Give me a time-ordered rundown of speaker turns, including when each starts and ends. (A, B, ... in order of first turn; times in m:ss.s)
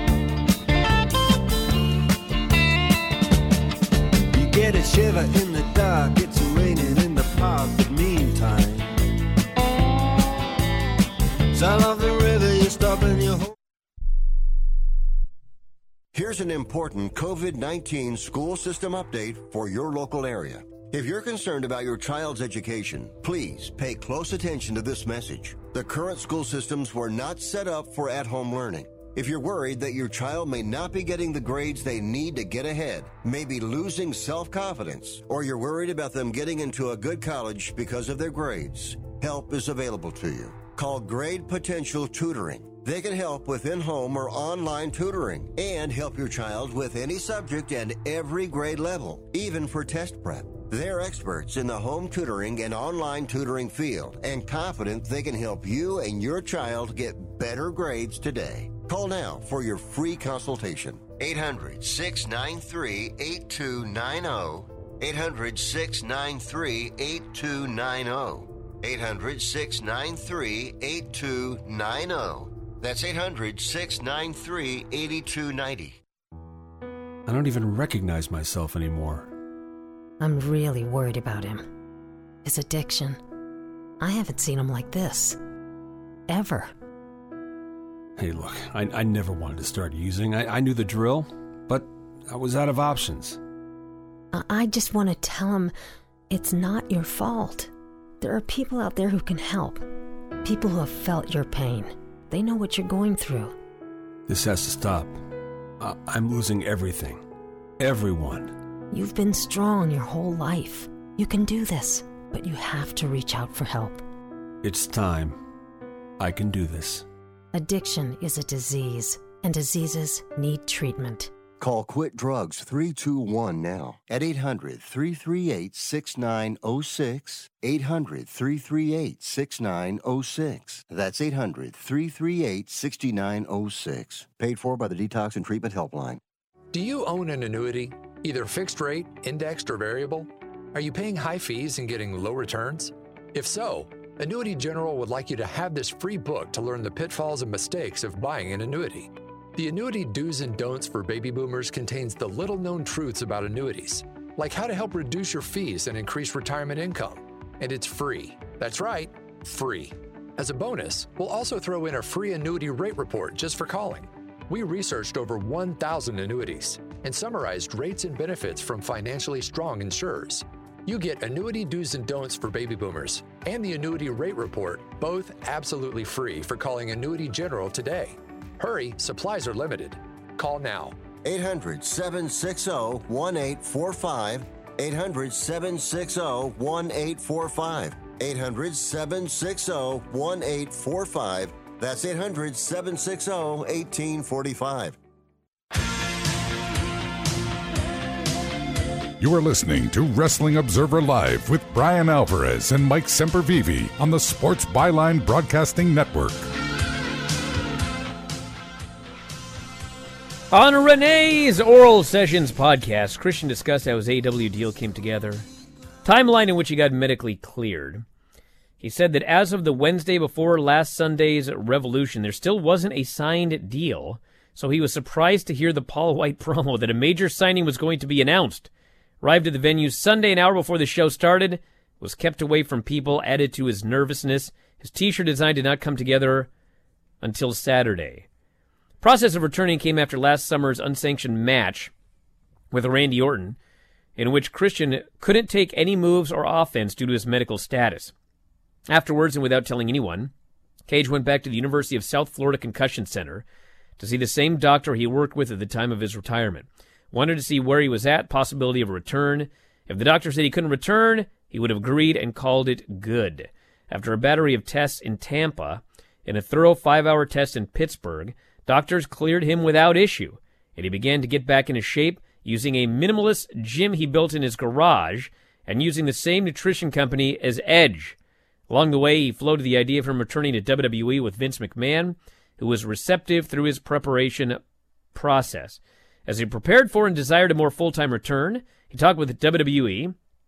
0:04.3-0:08.9 A
0:11.5-0:13.5 A
0:16.1-1:16.0 B
1:17.2-1:19.3 C
1:20.2-1:21.6 D
1:22.4-1:23.2 D
1:24.0-1:25.4 D
1:26.3-1:26.7 D
1:28.2-1:33.4 C
1:34.3-1:35.7 D
1:36.3-1:39.8 D
1:40.4-1:43.5 D
1:44.3-1:45.2 C
1:45.8-1:47.2 C
1:47.8-1:48.5 C
1:48.9-1:54.0 D
1:54.6-1:55.4 C
1:56.2-1:57.0 C
1:57.5-2:01.3 D
2:01.6-2:16.2 B
2:16.7-3:01.0 E
3:01.2-3:15.0 B
3:19.2-3:26.5 F
3:30.5-3:35.4 G
3:36.0-3:38.0 G
3:38.8-3:48.7 G
3:49.2-3:56.5 G
3:57.2-3:58.2 G
3:59.0-4:01.9 G
4:02.7-4:03.6 G
4:04.2-4:08.1 G
4:08.9-4:10.3 G
4:10.9-4:13.4 G
4:14.0-4:38.2 G
4:38.7-4:44.6 G
4:45.1-4:50.1 G